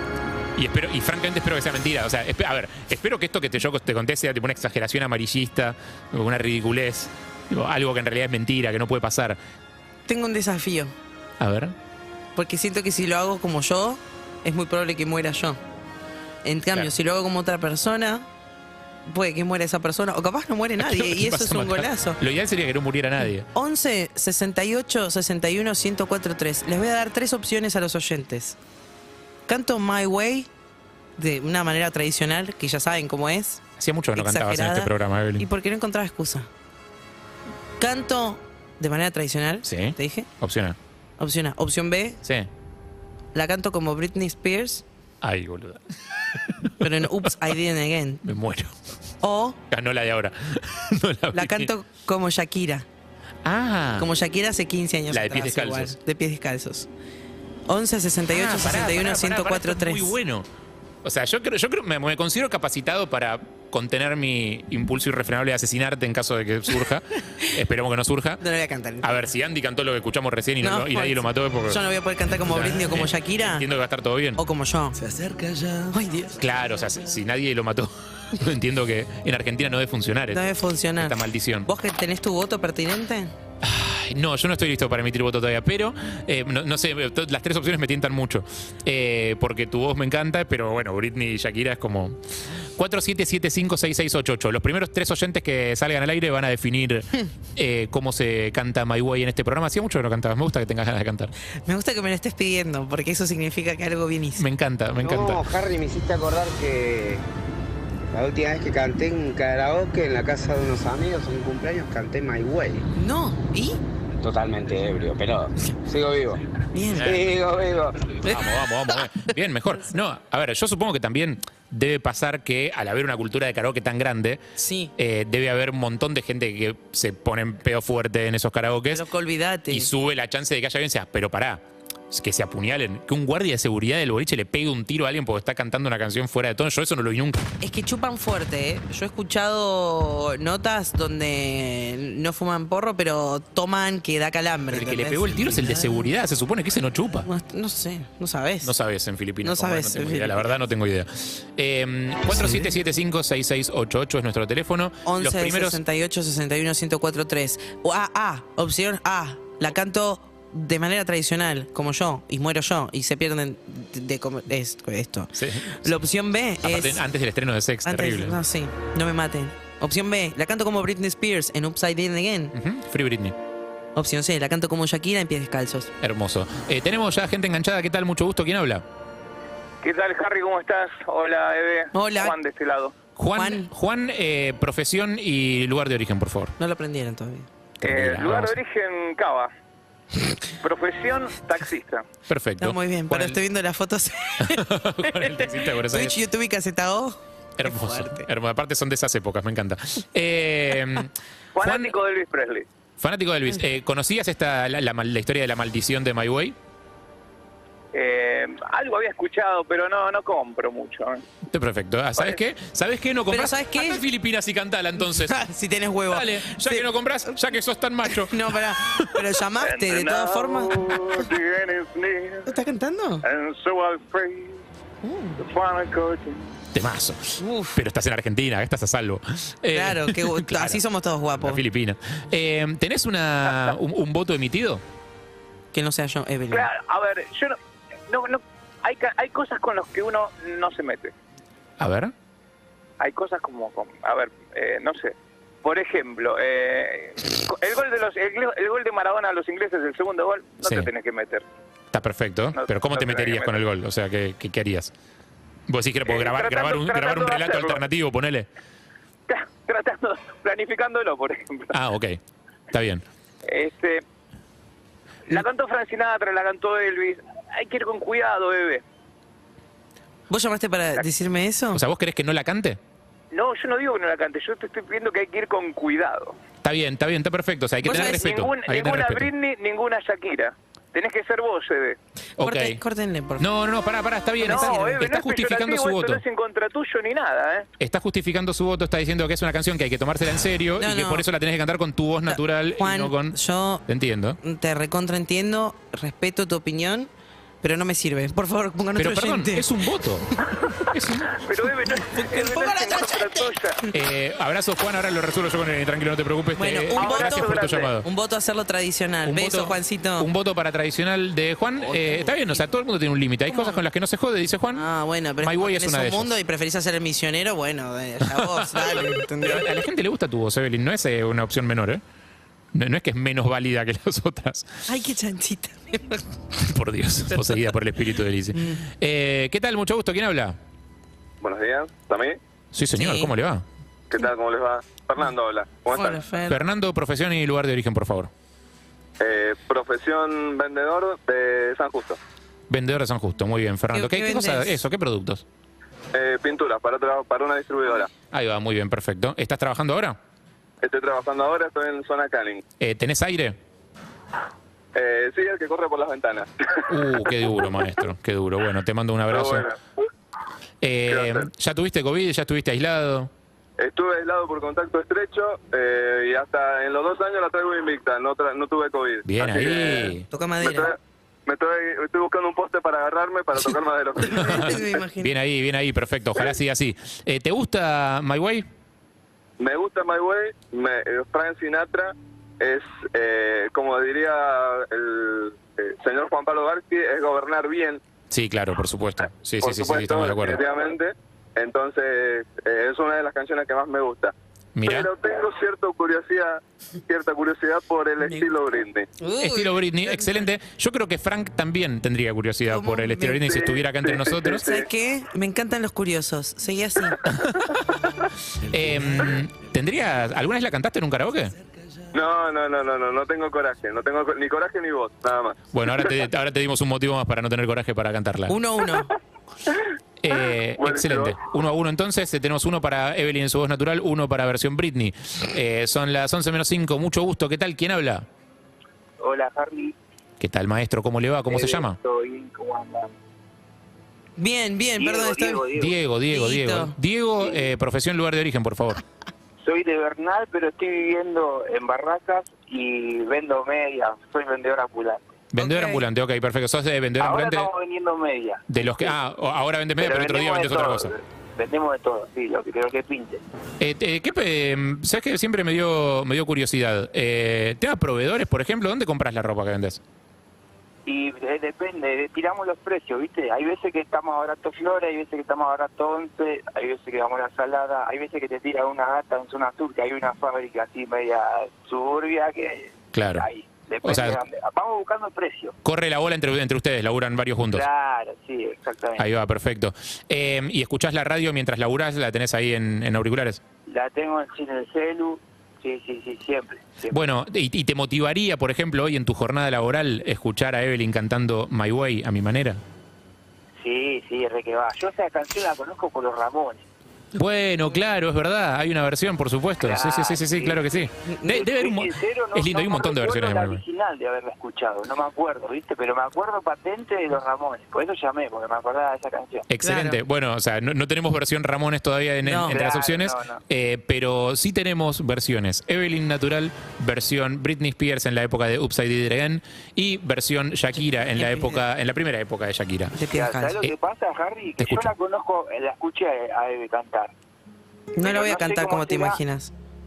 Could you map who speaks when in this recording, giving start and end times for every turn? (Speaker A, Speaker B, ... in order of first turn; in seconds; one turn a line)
Speaker A: 0.6-9.4
Speaker B: 10.1-10.9
Speaker A: 11.4-11.8
Speaker B: 12.3-15.6
Speaker B: 16.4-18.3
Speaker B: 19.1-22.2
Speaker A: 20.8-23.5
Speaker B: 23.5-28.6
Speaker B: 29.5-30.5
Speaker B: 31.2-33.6
Speaker A: 33.8-35.5
Speaker B: 34.2-36.5
Speaker B: 37.8-40.3
Speaker A: 39.6-40.8
Speaker B: 41.2-42.2
Speaker B: 43.3-44.8
Speaker A: 45.2-45.8
Speaker B: 46.8-48.2
Speaker A: 48.2-48.7
Speaker B: 49.2-49.6
Speaker A: 49.7-51.7
Speaker B: 51.3-52.9
Speaker A: 53.5-54.1
Speaker B: 54.0-56.9
Speaker A: 55.1-56.0
Speaker B: 57.7-60.1
Speaker A: 58.3-60.5
Speaker A: 61.0-68.4
Speaker B: 68.4-69.2
Speaker A: 69.0-71.8
Speaker B: 70.6-73.7
Speaker A: 72.5-74.4
Speaker B: 74.4-76.4
Speaker A: 76.4-80.4
Speaker B: 80.3-83.3
Speaker A: 81.0-81.7
Speaker A: 83.6-92.2
Speaker A: 92.8-101.3
Speaker B: 101.7-104.5
Speaker A: 104.4-105.5
Speaker C: 105.0-107.2
Speaker C: 108.1-112.8
Speaker B: 113.0-113.8
Speaker C: 114.2-116.4
Speaker B: 116.7-117.2
Speaker C: 117.0-118.2
Speaker A: 118.2-124.4
Speaker B: 124.6-124.9
Speaker A: 125.0-129.0
Speaker B: 128.9-129.9
Speaker A: 129.7-137.4
Speaker B: 137.6-145.9
Speaker A: 144.7-147.3
Speaker B: 147.2-148.7
Speaker A: 148.6-155.8
Speaker B: 149.4-150.5
Speaker B: 155.1-165.3
Speaker A: 165.4-166.0
Speaker B: 165.8-167.0
Speaker A: 166.6-168.4
Speaker B: 167.8-172.5
Speaker A: 172.6-173.4
Speaker B: 173.9-175.9
Speaker A: 176.0-178.8
Speaker D: 179.8-182.9
Speaker B: 181.9-182.4
Speaker A: 183.2-186.5
Speaker B: 183.3-183.7
Speaker B: 186.6-187.5
Speaker A: 187.8-188.6
Speaker D: 187.8-189.5
Speaker D: 190.6-192.1
Speaker A: 192.3-193.4
Speaker B: 192.6-198.3
Speaker A: 194.4-196.2
Speaker A: 197.6-201.1
Speaker D: 201.6-202.7
Speaker A: 201.6-202.0
Speaker A: 203.0-206.6
Speaker D: 207.9-211.2
Speaker A: 211.5-215.4
Speaker B: 213.3-214.0
Speaker B: 215.2-216.9
Speaker A: 216.1-218.5
Speaker B: 218.1-221.2
Speaker D: 219.6-222.5
Speaker B: 222.5-223.2
Speaker D: 223.2-224.6
Speaker B: 225.0-225.4
Speaker D: 225.4-226.4
Speaker A: 226.7-230.8
Speaker B: 227.4-227.8
Speaker B: 229.7-231.6
Speaker A: 231.4-234.8
Speaker B: 235.7-236.7
Speaker D: 236.5-237.6
Speaker D: 238.1-241.1
Speaker A: 241.8-242.1
Speaker D: 243.0-251.4
Speaker A: 250.6-250.9
Speaker A: 251.9-254.9
Speaker D: 252.5-253.6
Speaker A: 255.7-258.5
Speaker D: 256.1-257.9
Speaker D: 259.3-261.8
Speaker A: 261.7-262.2
Speaker A: 262.7-263.0
Speaker D: 263.5-264.0
Speaker D: 265.3-268.8
Speaker B: 270.3-271.8
Speaker A: 271.8-272.8
Speaker D: 273.3-276.4
Speaker A: 276.6-279.3
Speaker B: 277.8-278.3
Speaker D: 278.0-282.0
Speaker A: 282.4-282.8
Speaker B: 282.4-283.5
Speaker A: 283.4-286.2
Speaker D: 284.4-287.7
Speaker B: 284.4-284.8
Speaker A: 287.8-294.4
Speaker B: 290.8-291.3
Speaker B: 292.3-293.8
Speaker B: 294.4-297.1
Speaker B: 297.6-299.7
Speaker A: 299.0-300.3
Speaker A: 300.9-301.4
Speaker D: 301.3-303.8
Speaker B: 302.0-303.6
Speaker A: 303.9-308.1
Speaker B: 306.6-310.3
Speaker D: 307.0-307.9
Speaker A: 309.2-314.9
Speaker B: 311.8-312.6
Speaker B: 313.5-313.8
Speaker B: 314.7-319.7
Speaker A: 315.4-316.3
Speaker A: 318.3-322.0
Speaker A: 322.7-324.7
Speaker B: 324.9-326.2
Speaker A: 326.6-330.6
Speaker B: 327.4-327.7
Speaker B: 328.6-328.8
Speaker E: 331.4-332.4
Speaker A: 332.7-333.6
Speaker B: 332.9-333.3
Speaker E: 334.1-336.2
Speaker B: 335.9-336.6
Speaker A: 336.5-338.3
Speaker E: 339.2-342.2
Speaker A: 342.7-345.4
Speaker B: 343.9-344.8
Speaker E: 346.1-348.1
Speaker A: 348.3-350.2
Speaker E: 350.8-352.6
Speaker A: 352.8-353.6
Speaker E: 354.9-356.5
Speaker A: 356.9-359.7
Speaker E: 359.3-359.8
Speaker A: 360.8-363.3
Speaker E: 361.1-361.5
Speaker E: 363.8-374.9
Speaker A: 369.2-370.2
Speaker B: 370.3-370.9
Speaker B: 374.3-375.3
Speaker A: 375.2-378.7
Speaker E: 379.6-388.0
Speaker A: 388.3-390.6
Speaker E: 389.6-394.3
Speaker A: 394.8-395.1
Speaker E: 394.9-399.1
Speaker B: 398.2-398.5
Speaker B: 399.2-399.8
Speaker A: 399.4-404.6
Speaker B: 402.7-403.4
Speaker E: 403.4-404.9
Speaker B: 404.6-407.3
Speaker A: 408.7-411.6
Speaker E: 412.1-416.0
Speaker A: 415.7-418.5
Speaker B: 418.5-419.1
Speaker A: 420.2-428.3
Speaker E: 420.8-421.4
Speaker F: 429.2-430.0
Speaker A: 430.4-432.0
Speaker F: 431.5-433.1
Speaker B: 434.4-435.7
Speaker F: 435.0-436.0
Speaker A: 435.8-439.0
Speaker B: 436.3-437.0
Speaker F: 437.4-437.7
Speaker F: 439.6-445.6
Speaker A: 445.5-447.7
Speaker B: 445.6-446.0
Speaker F: 447.2-449.1
Speaker A: 448.7-451.1
Speaker F: 450.0-453.4
Speaker A: 453.8-460.0
Speaker F: 461.1-475.8
Speaker A: 473.1-473.5
Speaker A: 474.0-474.4
Speaker A: 475.8-477.9
Speaker F: 477.7-479.3
Speaker A: 479.2-483.6
Speaker F: 483.9-487.2
Speaker A: 487.1-492.8
Speaker F: 493.8-496.8
Speaker A: 497.4-503.8
Speaker F: 499.8-509.7
Speaker A: 509.7-523.2
Speaker B: 509.8-510.2
Speaker B: 512.4-512.8
Speaker F: 512.7-513.6
Speaker B: 521.1-521.8
Speaker B: 523.1-523.9
Speaker F: 523.3-527.3
Speaker A: 524.8-525.1
Speaker B: 528.2-529.7
Speaker F: 528.2-529.4